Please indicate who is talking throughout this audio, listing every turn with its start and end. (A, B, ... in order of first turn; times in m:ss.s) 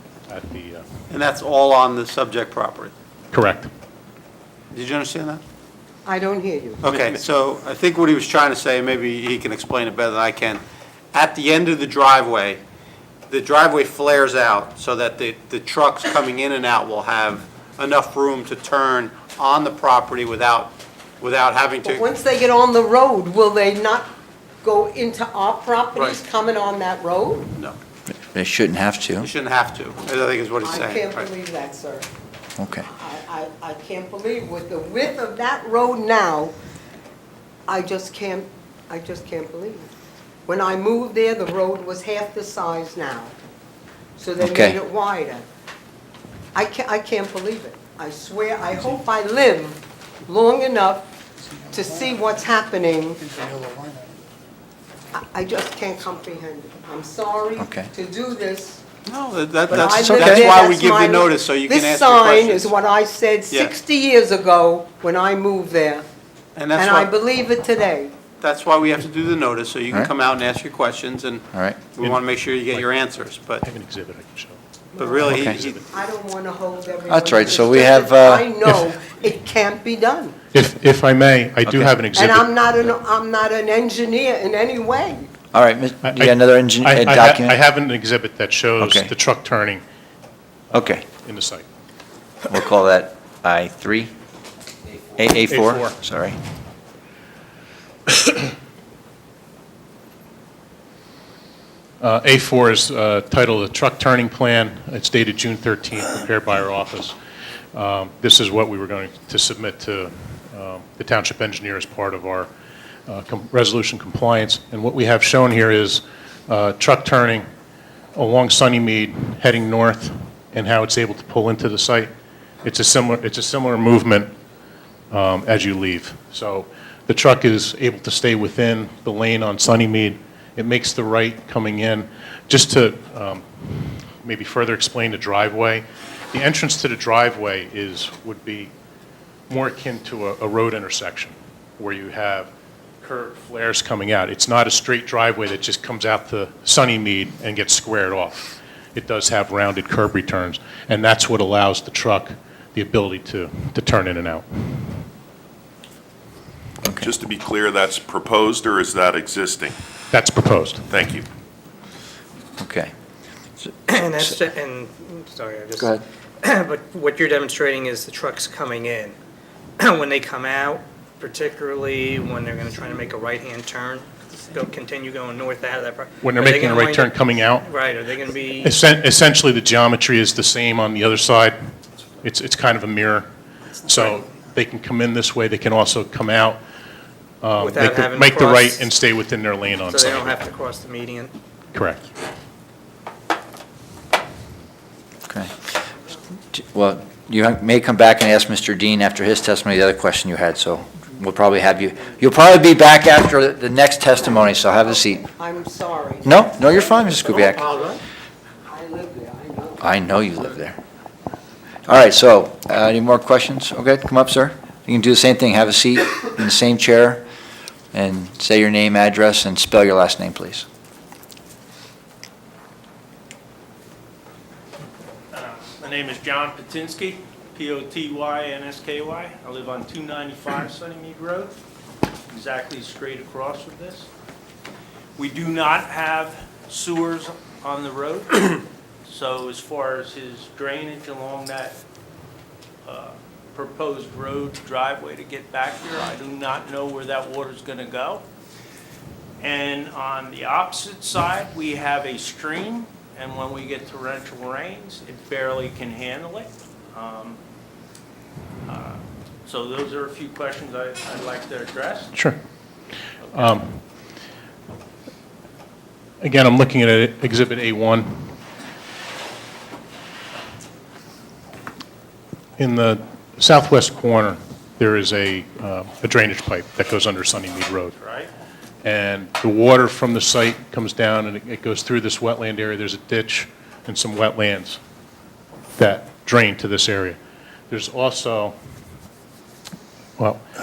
0:00.3-0:00.8 A
0:01.1-0:02.9 B
0:03.3-0:03.7 A
0:04.7-0:05.4 B
0:06.0-0:07.1 C
0:06.8-0:10.6 B
0:11.1-0:12.6 B
0:13.3-0:22.1 B
0:21.8-0:24.1 C
0:24.6-0:27.5 C
0:28.1-0:29.3 D
0:29.2-0:31.3 B
0:30.6-0:32.1 C
0:32.6-0:32.8 D
0:32.8-0:36.5 C
0:37.7-0:39.9 C
0:40.4-0:43.3 C
0:44.2-0:45.4 C
0:44.4-0:44.8 D
0:46.5-0:51.1 C
0:51.7-0:53.4 C
0:55.1-0:58.8 C
0:57.6-0:57.9 D
0:59.0-1:02.7 B
0:59.7-1:00.5 D
0:59.7-1:06.0 C
1:06.5-1:07.1 B
1:06.7-1:08.1 C
1:08.4-1:13.6 B
1:11.5-1:11.8 D
1:13.6-1:14.6 A
1:14.9-1:20.4 C
1:15.0-1:15.8 B
1:15.2-1:15.8 A
1:15.3-1:15.6 D
1:17.1-1:18.5 D
1:20.5-1:22.5 A
1:21.6-1:21.9 D
1:22.1-1:25.3 C
1:25.5-1:27.6 D
1:26.0-1:29.8 A
1:28.8-1:29.1 D
1:30.7-1:31.0 D
1:30.7-1:31.6 A
1:32.5-1:34.1 D
1:35.1-1:36.4 D
1:35.5-1:36.0 A
1:42.0-1:47.1 A
1:47.7-1:52.5 A
1:53.1-1:57.4 A
1:58.1-2:02.1 A
2:02.6-2:04.3 A
2:05.1-2:18.7 A
2:19.5-2:22.5 A
2:23.0-2:35.0 A
2:36.8-2:37.1 D
2:37.0-2:39.8 E
2:40.1-2:40.8 A
2:40.9-2:41.2 E
2:42.6-2:42.9 D
2:43.9-2:45.9 F
2:45.8-2:46.0 D
2:46.4-2:49.2 F
2:49.8-2:57.1 F
2:56.2-2:57.7 A
2:57.6-2:58.7 F
2:58.6-3:01.6 A
3:02.2-3:03.3 A
3:03.8-3:06.6 A
3:07.4-3:10.4 A
3:07.6-3:08.8 F
3:09.9-3:11.3 F
3:11.7-3:12.0 A
3:15.3-3:15.7 D
3:16.5-3:25.2 D
3:25.2-3:26.6 C
3:26.2-3:27.6 D
3:27.2-3:28.0 B
3:28.6-3:29.9 C
3:29.8-3:30.8 D
3:31.9-3:37.2 D
3:37.9-3:40.6 D
3:45.3-3:51.6 G
3:52.3-3:54.1 G
3:55.2-4:01.8 G
4:02.8-4:08.2 G
4:09.4-4:17.4 G
4:18.6-4:22.2 G
4:23.3-4:23.8 A
4:26.2-4:28.4 A
4:32.6-4:37.9 A
4:37.9-4:38.3 G
4:38.8-4:44.8 A
4:45.8-4:47.2 A
4:47.7-4:48.6 A
4:50.2-4:50.4 A